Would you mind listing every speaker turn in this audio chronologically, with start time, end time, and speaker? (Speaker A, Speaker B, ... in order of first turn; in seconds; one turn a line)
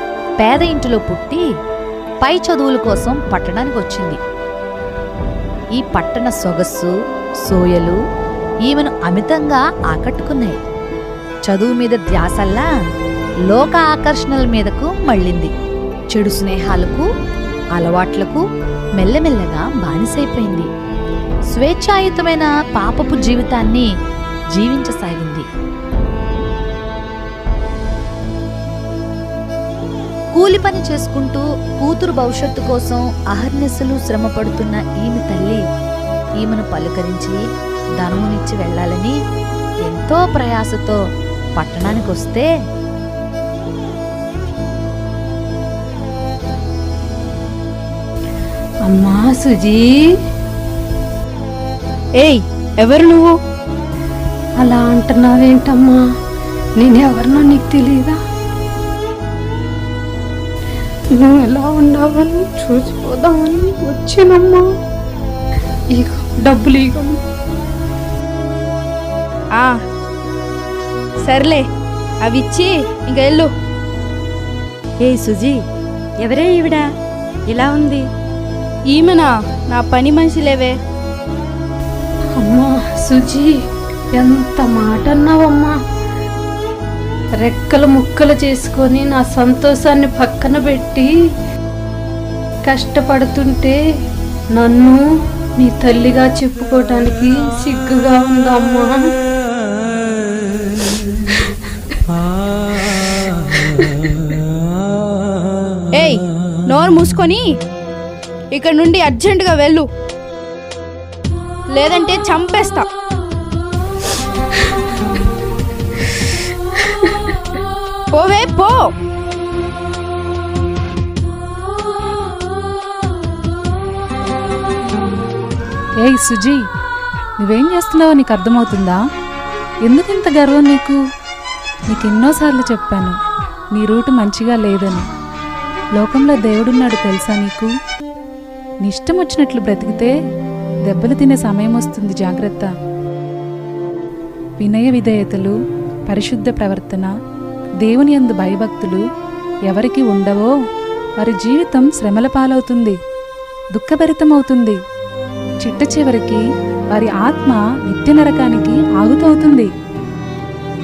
Speaker A: 0.4-1.4
Speaker A: 2.2-4.2
Speaker A: 5.8-6.9
Speaker A: 7.5-8.0
Speaker A: 8.7-10.6
Speaker A: 11.5-12.7
Speaker A: 13.5-15.5
Speaker A: 16.1-17.1
Speaker A: 17.7-18.4
Speaker A: 19.0-20.7
Speaker A: 21.5-23.9
Speaker A: 24.5-25.4
Speaker A: 30.3-35.6
Speaker A: 36.4-37.4
Speaker A: 38.0-39.1
Speaker A: 39.9-41.0
Speaker A: 41.6-42.5
Speaker B: 48.9-49.8
Speaker C: 52.2-53.3
Speaker B: 54.6-56.0
Speaker B: 56.8-58.2
Speaker B: 61.1-64.7
Speaker B: 65.9-67.2
Speaker C: 71.2-71.6
Speaker C: 72.2-73.5
Speaker D: 75.0-75.6
Speaker D: 76.2-76.9
Speaker D: 77.5-78.1
Speaker C: 78.9-80.8
Speaker B: 82.4-83.5
Speaker B: 84.2-85.7
Speaker B: 87.4-91.1
Speaker B: 92.7-93.8
Speaker B: 94.6-95.0
Speaker B: 95.6-98.9
Speaker C: 106.0-107.4
Speaker C: 108.5-109.9
Speaker C: 111.7-112.9
Speaker C: 118.1-118.9
Speaker E: 126.0-126.6
Speaker E: 127.4-129.0
Speaker E: 129.9-131.0
Speaker E: 131.9-133.2
Speaker E: 133.7-135.1
Speaker E: 136.0-137.7
Speaker E: 138.8-140.1
Speaker E: 140.9-142.7
Speaker E: 144.6-145.6
Speaker E: 146.1-147.1
Speaker E: 147.8-149.0
Speaker E: 149.7-150.5
Speaker E: 151.2-153.0
Speaker E: 153.7-154.8
Speaker E: 155.6-159.7